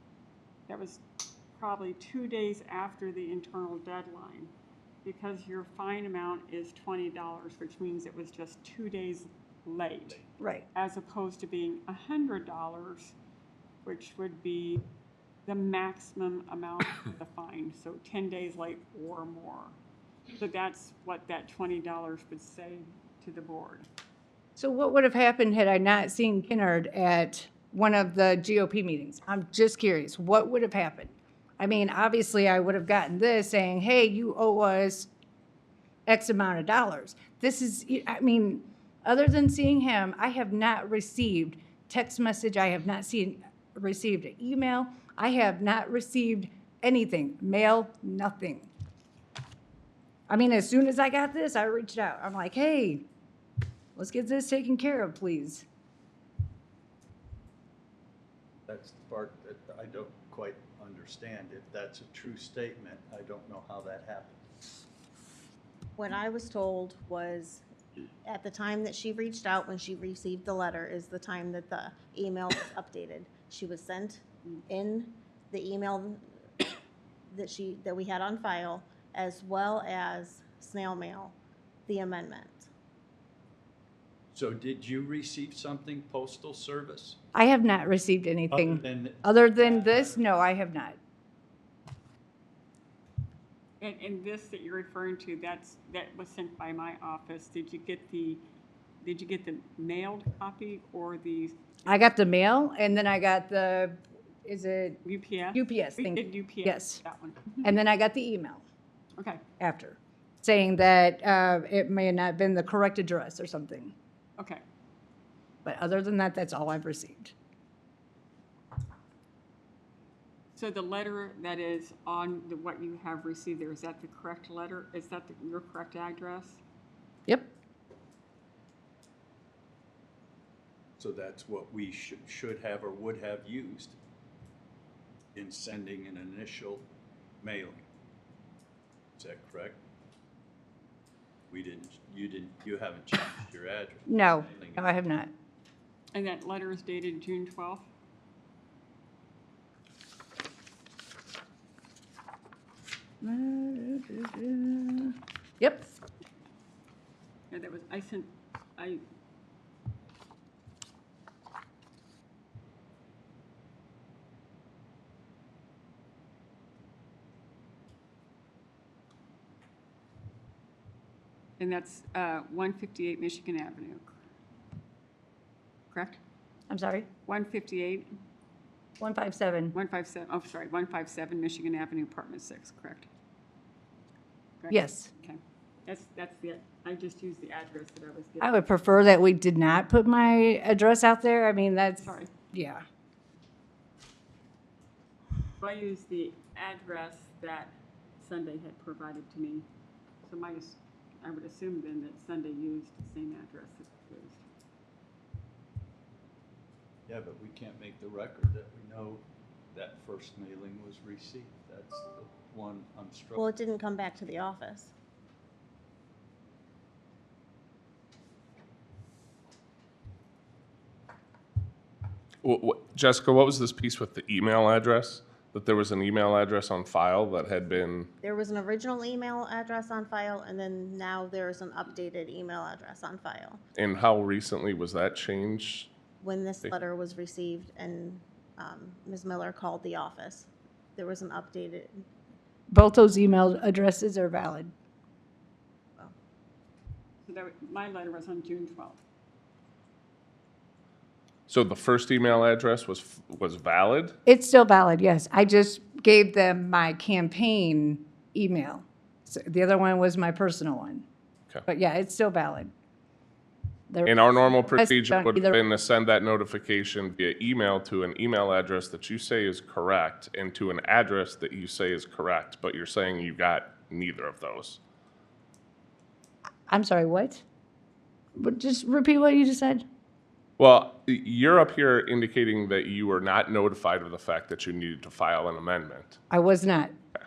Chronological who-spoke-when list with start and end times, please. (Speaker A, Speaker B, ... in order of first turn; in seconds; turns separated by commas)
Speaker A: 0.7-1.0, Speaker A: 1.5-4.5, Speaker A: 5.0-10.2, Speaker B: 10.4-10.7, Speaker A: 10.7-13.2, Speaker A: 13.8-14.8, Speaker A: 15.5-19.8, Speaker A: 20.4-23.9, Speaker B: 24.6-35.1, Speaker B: 36.1-48.7, Speaker B: 50.3-53.0, Speaker B: 54.0-55.6, Speaker C: 58.7-64.4, Speaker D: 66.0-67.7, Speaker D: 68.2-76.2, Speaker D: 77.3-81.4, Speaker D: 81.9-82.7, Speaker C: 84.3-87.2, Speaker B: 87.3-91.0, Speaker C: 88.5-90.2, Speaker A: 93.8-98.4, Speaker A: 99.0-101.6, Speaker B: 101.9-105.0, Speaker A: 105.0-107.6, Speaker B: 105.5-107.0, Speaker B: 107.6-108.6, Speaker B: 109.6-113.9, Speaker A: 114.4-114.6, Speaker B: 115.6-117.3, Speaker A: 120.6-126.6, Speaker C: 131.0-134.0, Speaker C: 135.3-136.8, Speaker C: 137.4-137.8, Speaker C: 139.2-139.8, Speaker C: 141.5-144.9, Speaker B: 144.1-145.3, Speaker A: 146.1-147.9, Speaker B: 153.2-156.0, Speaker A: 157.5-159.0, Speaker A: 171.6-174.1, Speaker A: 175.9-176.2, Speaker B: 176.7-177.1, Speaker A: 177.3-178.1, Speaker B: 179.0-179.8, Speaker A: 179.7-183.1, Speaker A: 184.6-188.5, Speaker B: 184.7-185.1, Speaker B: 188.4-192.8, Speaker A: 192.0-192.3, Speaker A: 195.6-199.7, Speaker A: 200.2-204.4, Speaker C: 207.1-209.2, Speaker C: 209.7-213.5, Speaker D: 213.4-214.9, Speaker E: 222.4-228.1, Speaker D: 228.2-233.6, Speaker E: 233.8-235.9, Speaker D: 236.2-242.1, Speaker B: 242.7-244.7, Speaker A: 247.3-249.0, Speaker E: 251.5-254.2, Speaker B: 254.3-261.1, Speaker B: 261.7-262.7, Speaker B: 263.9-265.6, Speaker E: 264.1-274.8, Speaker B: 276.7-277.4, Speaker B: 278.4-279.9, Speaker E: 280.6-286.2, Speaker B: 286.3-286.9